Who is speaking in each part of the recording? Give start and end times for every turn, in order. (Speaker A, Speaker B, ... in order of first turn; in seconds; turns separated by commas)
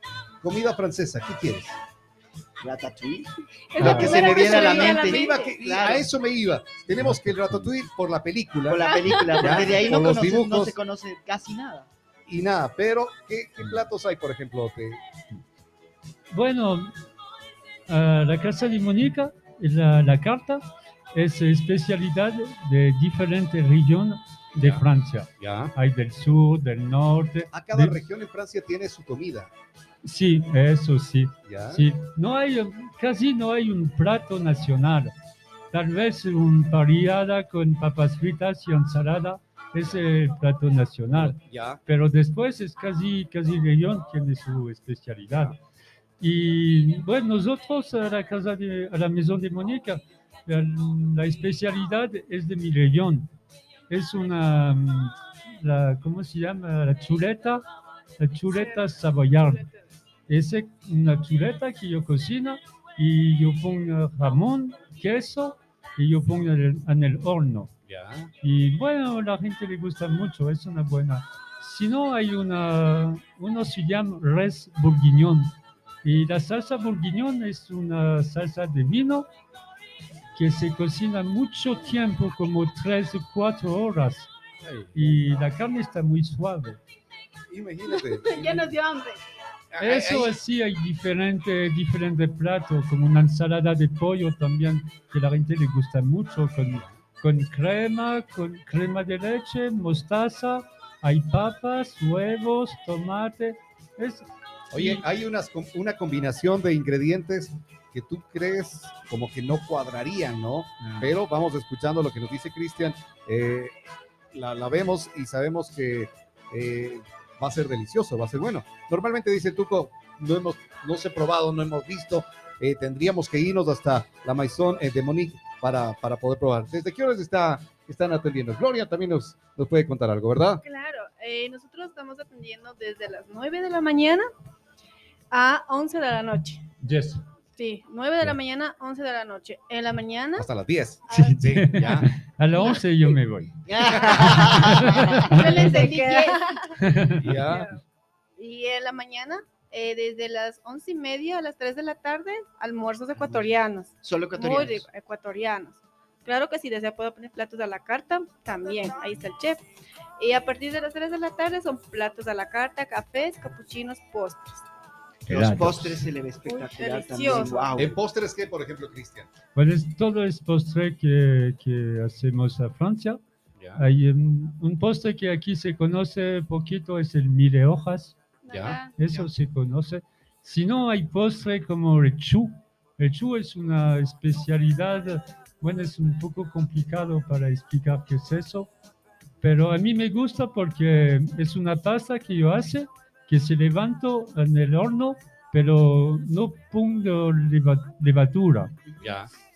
Speaker A: 0.4-1.8, Speaker B: 2.6-6.1, Speaker C: 3.7-5.5, Speaker A: 3.8-10.8, Speaker D: 3.8-4.1, Speaker D: 7.0-7.7, Speaker B: 8.7-11.9, Speaker C: 9.2-9.8, Speaker A: 12.3-15.0, Speaker D: 16.3-16.9, Speaker D: 17.9-28.0, Speaker A: 25.4-25.8, Speaker A: 27.5-29.5, Speaker D: 30.0-35.1, Speaker A: 31.4-31.9, Speaker D: 35.7-45.6, Speaker A: 41.1-41.8, Speaker A: 45.3-45.6, Speaker D: 46.2-53.3, Speaker D: 53.9-57.6, Speaker D: 58.2-59.6, Speaker C: 58.5-58.9, Speaker C: 59.4-59.8, Speaker D: 60.3-67.7, Speaker A: 67.9-68.3, Speaker D: 68.4-79.3, Speaker D: 80.4-84.3, Speaker A: 84.6-85.2, Speaker D: 84.9-86.8, Speaker A: 87.5-88.8, Speaker E: 87.9-89.2, Speaker A: 89.7-90.4, Speaker D: 89.8-105.0, Speaker A: 96.7-97.0, Speaker A: 104.7-113.7, Speaker A: 114.3-130.6, Speaker C: 130.6-134.3, Speaker C: 135.3-136.6, Speaker D: 136.8-137.2, Speaker C: 137.6-140.5, Speaker A: 140.4-142.1, Speaker D: 141.1-143.5, Speaker B: 143.7-145.3, Speaker D: 144.1-145.6, Speaker C: 145.2-146.8, Speaker E: 145.4-146.4, Speaker D: 146.8-147.5, Speaker A: 147.2-147.7, Speaker C: 148.4-159.6, Speaker B: 154.0-154.9, Speaker C: 160.2-164.6, Speaker D: 165.2-166.0, Speaker B: 165.3-168.0, Speaker C: 166.5-167.7, Speaker A: 167.8-169.3, Speaker D: 169.6-173.2, Speaker A: 173.6-173.8, Speaker D: 173.8-178.2, Speaker E: 178.4-178.9, Speaker A: 178.5-178.8, Speaker D: 178.8-188.7, Speaker B: 179.0-179.3, Speaker D: 189.4-198.7, Speaker B: 198.9-199.1, Speaker A: 199.0-199.3